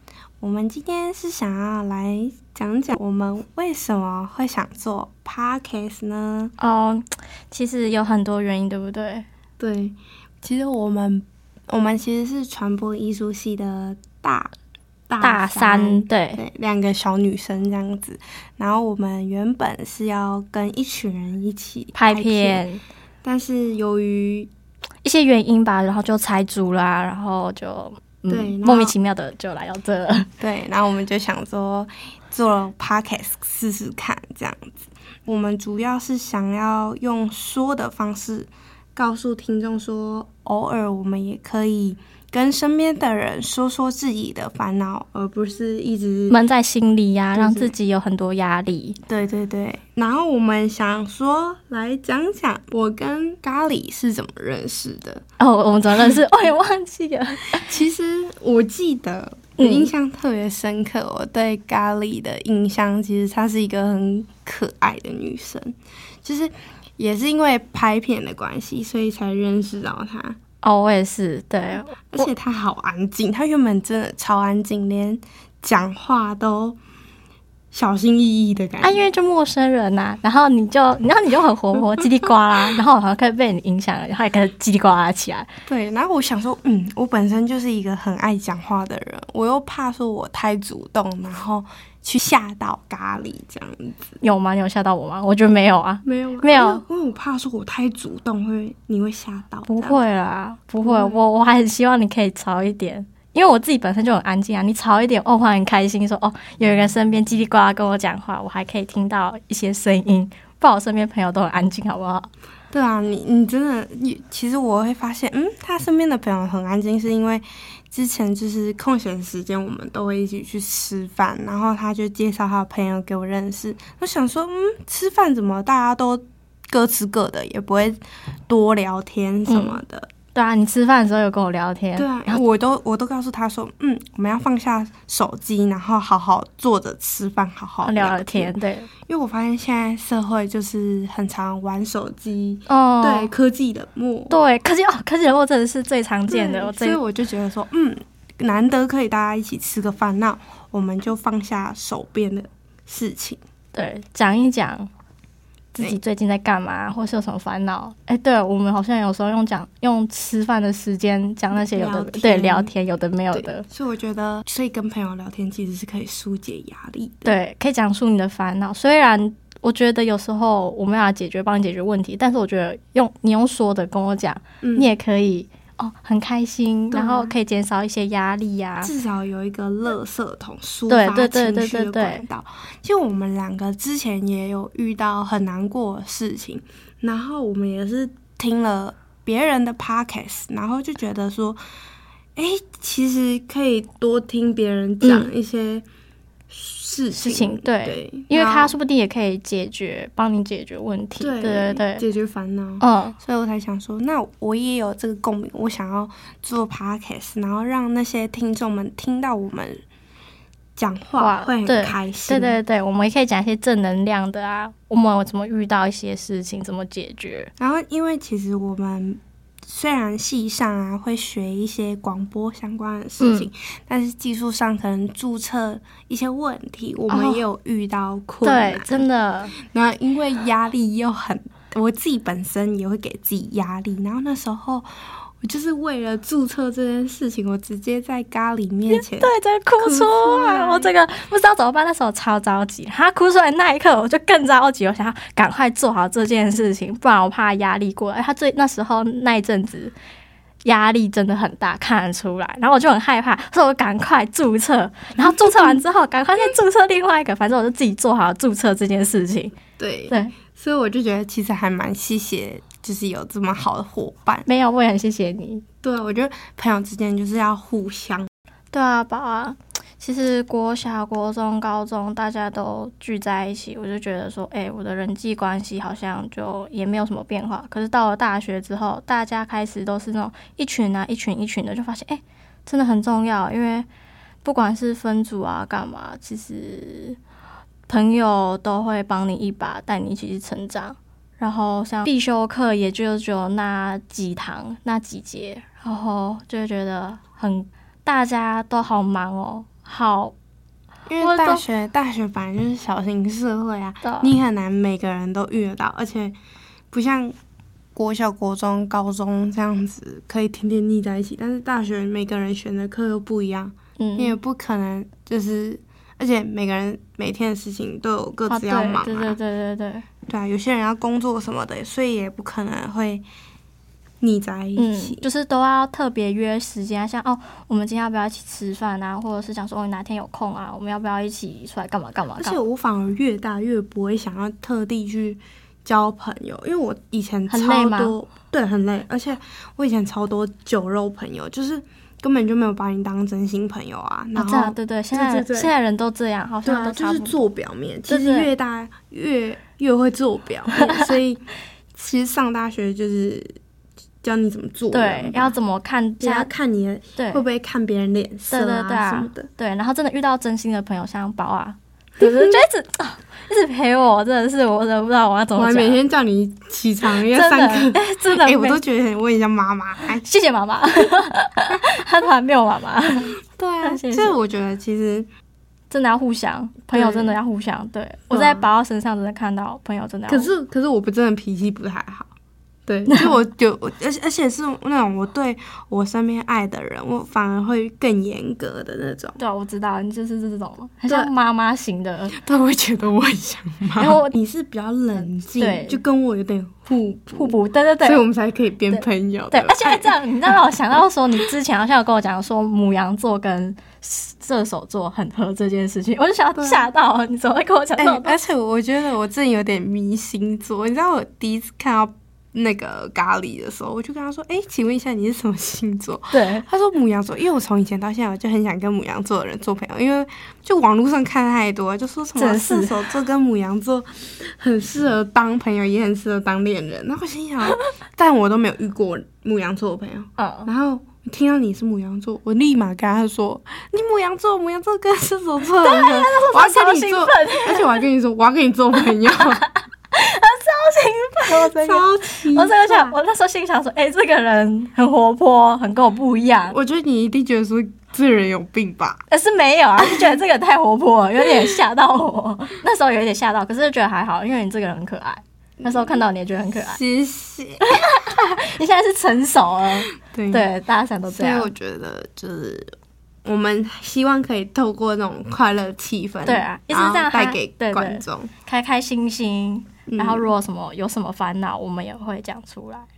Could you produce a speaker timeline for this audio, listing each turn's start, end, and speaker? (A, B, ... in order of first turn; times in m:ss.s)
0:00.4-0:06.5 A
0:06.6-0:09.3 B
0:09.6-0:14.5 A
0:15.1-0:22.6 A
0:15.2-0:16.4 B
0:22.0-0:22.8 B
0:23.2-0:24.5 A
0:25.0-0:30.3 B
0:28.3-0:29.0 A
0:30.4-0:46.4 A
0:46.3-0:49.0 B
0:47.3-0:47.7 A
0:49.1-0:55.2 A
0:55.4-0:57.7 B
0:57.6-1:10.4 A
0:59.6-0:59.9 B
1:10.6-1:12.3 B
1:12.1-1:16.8 A
1:17.7-1:19.1 A
1:18.8-1:25.5 B
1:25.7-1:34.2 A
1:34.2-1:36.8 B
1:36.0-1:40.0 A
1:39.7-1:52.3 B
1:40.8-1:41.2 A
1:52.7-2:10.1 A
2:09.5-2:09.8 B
2:10.4-2:12.4 B
2:12.0-2:18.6 A
2:17.8-2:18.9 B
2:19.1-2:24.4 A
2:22.7-2:23.3 B
2:24.3-2:27.0 B
2:26.3-2:33.4 A
2:33.7-2:34.9 B
2:35.7-2:43.6 B
2:41.5-2:42.7 A
2:43.3-2:47.4 A
2:47.2-2:58.9 B
2:54.6-2:54.9 A
2:56.9-2:57.3 A
2:58.8-3:11.6 A
3:00.9-3:02.2 B
3:12.4-3:15.8 A
3:15.0-3:15.3 B
3:16.5-3:18.8 A
3:17.1-3:22.0 B
3:21.2-3:29.8 A
3:22.8-3:23.2 B
3:30.8-3:32.6 A
3:31.2-3:37.5 B
3:37.6-3:49.1 A
3:43.2-3:43.5 B
3:47.1-3:47.4 B
3:48.4-3:49.6 B
3:49.6-3:54.9 A
3:55.4-4:00.9 A
3:58.9-4:09.9 B
4:10.6-4:19.6 B
4:15.2-4:15.8 A
4:19.8-4:24.5 A
4:20.1-4:20.4 B
4:24.5-4:25.6 B
4:25.8-4:28.3 A
4:28.7-4:43.9 B
4:44.4-4:47.2 B
4:47.9-5:00.3 B
5:01.1-5:06.4 A
5:01.2-5:01.6 B
5:04.0-5:04.3 B
5:06.9-5:07.4 A
5:08.0-5:19.4 A
5:14.0-5:14.4 B
5:18.5-5:20.0 B
5:20.3-5:23.3 A
5:24.2-5:25.3 A
5:24.8-5:32.6 B
5:32.4-5:45.7 A
5:37.5-5:38.2 B
5:44.4-5:47.4 B
5:46.6-5:53.5 A
5:48.1-5:48.5 B
5:50.8-5:51.0 B
5:54.2-5:55.6 A
5:54.9-5:56.5 B
5:56.2-5:59.5 A
5:57.2-5:57.4 B
5:58.5-6:06.0 B
6:02.2-6:02.6 A
6:05.6-6:10.2 A
6:07.3-6:08.8 B
6:10.2-6:14.4 B
6:13.5-6:15.3 A
6:15.9-6:20.5 B
6:16.9-6:17.4 A
6:18.3-6:18.7 A
6:20.3-6:22.3 A
6:22.9-6:29.4 A
6:29.4-6:32.4 B
6:32.3-6:40.2 A
6:34.0-6:34.3 B
6:35.6-6:36.0 B
6:37.4-6:38.2 B
6:38.9-6:48.4 B
6:46.6-6:46.9 A
6:48.0-7:19.7 A
6:56.3-6:56.6 B
7:02.4-7:03.1 B
7:10.4-7:10.7 B
7:15.8-7:18.0 B
7:19.3-7:26.8 B
7:21.4-7:23.2 A
7:26.7-7:29.2 A
7:29.3-7:37.0 B
7:35.8-7:36.2 A
7:36.8-7:37.9 A
7:37.8-7:41.7 B
7:40.3-7:40.7 A
7:41.3-7:42.9 A
7:43.4-7:48.5 A
7:46.5-7:53.1 B
7:50.1-7:50.5 A